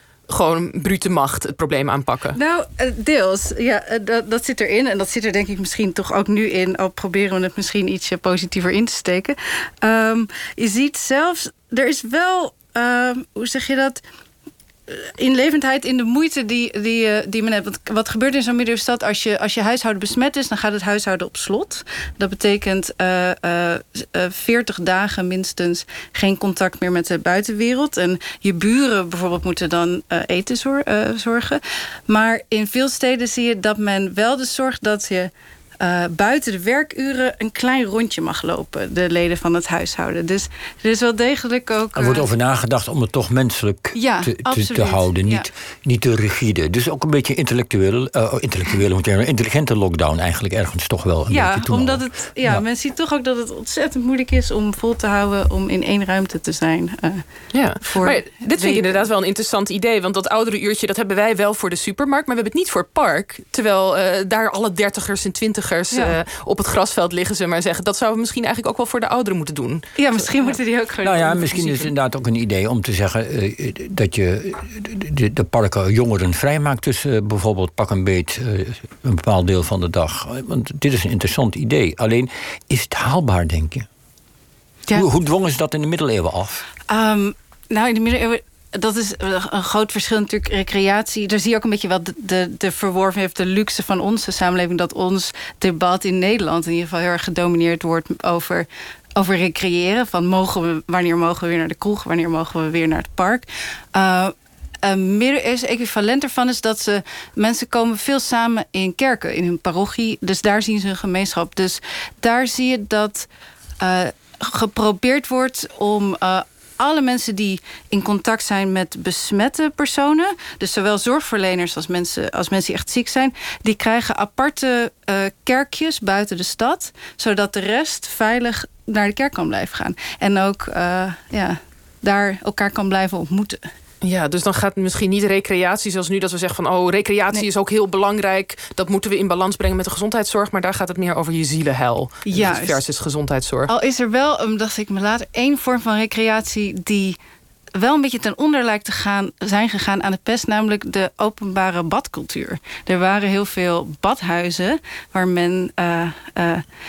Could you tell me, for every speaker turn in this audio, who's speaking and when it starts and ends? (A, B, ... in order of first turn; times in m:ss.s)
0:00.3-0:02.4 A
0:02.3-0:14.0 B
0:14.9-0:42.3 B
0:42.0-0:52.6 C
0:43.9-0:45.5 B
0:51.3-0:57.2 B
0:57.5-1:10.6 A
0:57.8-0:59.0 B
1:10.0-1:11.9 B
1:11.0-1:23.8 C
1:24.9-1:26.6 C
1:26.9-1:44.3 B
1:44.8-1:53.3 B
1:53.8-2:13.6 B
2:14.0-2:23.7 A
2:22.2-2:22.8 B
2:23.7-2:27.2 B
2:27.7-2:36.6 B